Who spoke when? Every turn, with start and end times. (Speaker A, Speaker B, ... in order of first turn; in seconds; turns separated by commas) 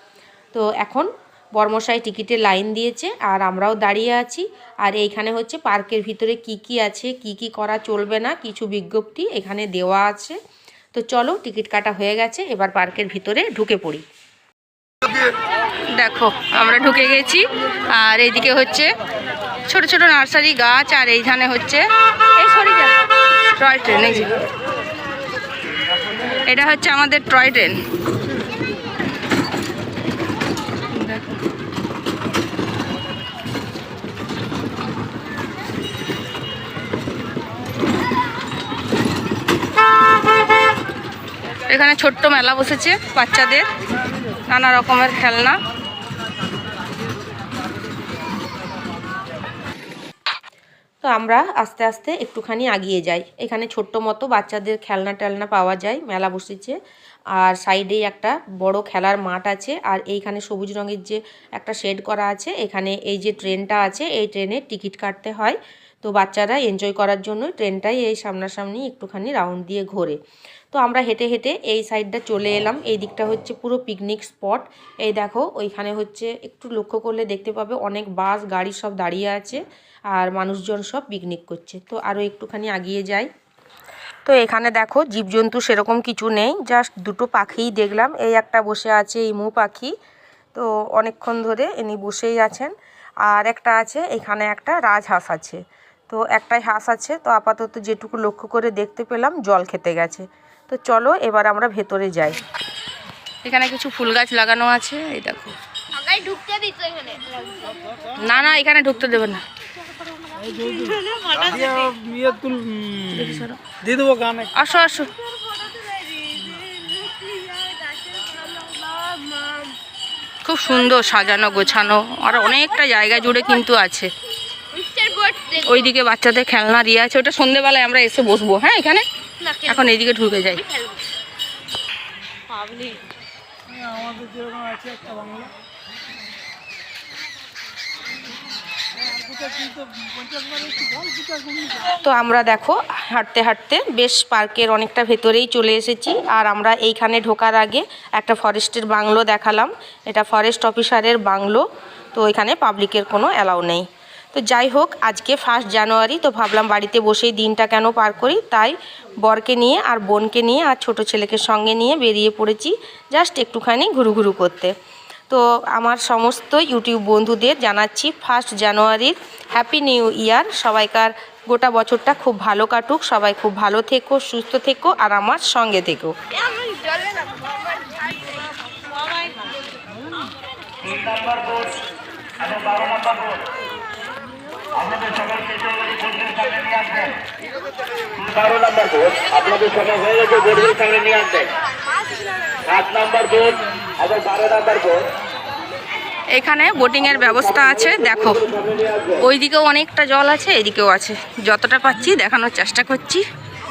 Speaker A: 0.5-10.4, Speaker A: 10.9-14.0, Speaker A: 15.9-18.9, Speaker A: 19.7-21.9, Speaker A: 22.4-22.9, Speaker A: 23.6-24.3, Speaker A: 26.4-27.8, Speaker A: 30.9-31.3, Speaker A: 41.7-43.7, Speaker A: 44.5-45.6, Speaker A: 51.0-56.8, Speaker A: 57.4-70.2, Speaker A: 70.7-83.3, Speaker A: 84.2-89.9, Speaker A: 90.5-92.7, Speaker A: 93.2-102.4, Speaker A: 103.4-105.6, Speaker B: 105.9-107.5, Speaker A: 108.2-109.4, Speaker C: 110.3-114.6, Speaker B: 110.5-111.7, Speaker A: 113.1-113.6, Speaker A: 114.5-115.1, Speaker B: 115.8-119.6, Speaker A: 120.4-124.1, Speaker B: 124.7-125.9, Speaker A: 125.6-129.0, Speaker B: 129.4-129.9, Speaker A: 129.6-130.6, Speaker B: 130.6-131.0, Speaker B: 132.5-133.0, Speaker C: 133.7-135.5, Speaker C: 139.1-141.9, Speaker A: 142.0-164.7, Speaker A: 165.3-176.1, Speaker B: 176.4-178.0, Speaker D: 180.9-181.5, Speaker D: 182.5-183.3, Speaker D: 184.8-187.1, Speaker D: 188.2-191.5, Speaker B: 189.4-191.1, Speaker D: 192.7-195.0, Speaker A: 196.3-198.5, Speaker A: 199.1-203.2